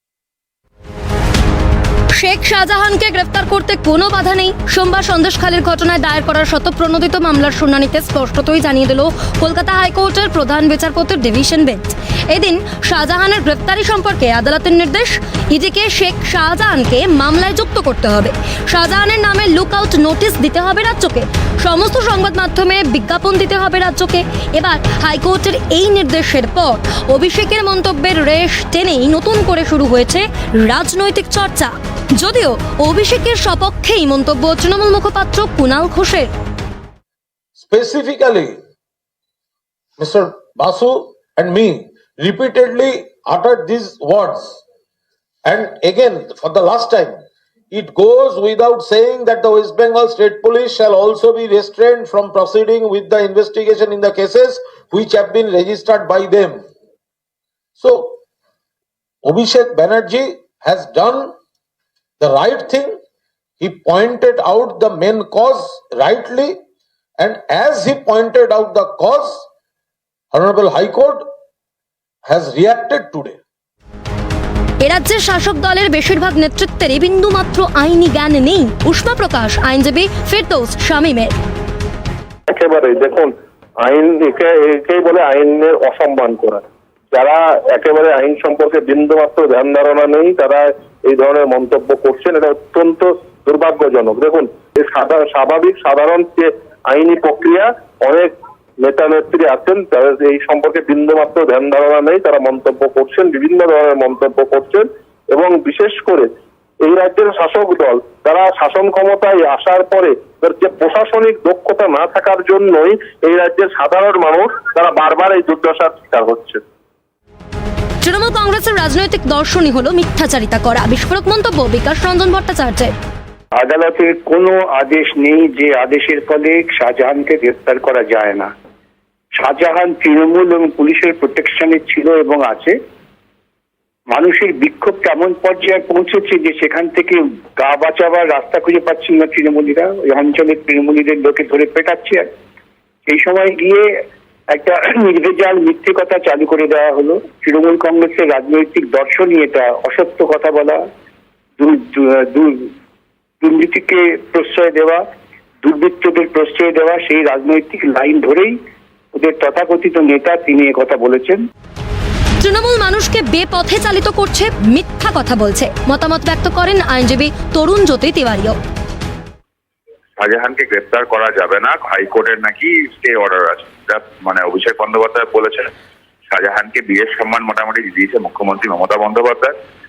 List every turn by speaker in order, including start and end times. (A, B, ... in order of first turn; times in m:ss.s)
0:02.1-0:36.3 A
0:37.6-0:38.6 B
0:40.0-0:44.6 B
0:45.4-0:47.2 B
0:47.7-0:56.6 B
0:57.8-0:58.2 B
0:59.2-1:01.3 B
1:02.2-1:03.0 B
1:03.6-1:06.6 B
1:07.2-1:09.4 B
1:10.3-1:11.2 B
1:12.2-1:13.4 B
1:14.8-1:21.3 A
1:22.5-1:46.3 C
1:46.8-1:56.6 C
1:58.0-2:02.9 A
2:03.5-2:08.5 D
2:09.4-2:12.8 D
2:14.1-2:22.3 D
2:23.1-2:23.9 D
2:24.5-2:30.8 D
2:31.6-2:32.7 D
2:33.4-2:35.0 D
2:35.6-2:38.6 D
2:39.1-2:41.4 D
2:42.4-2:48.6 A
2:50.2-2:55.7 E
2:56.3-2:59.5 E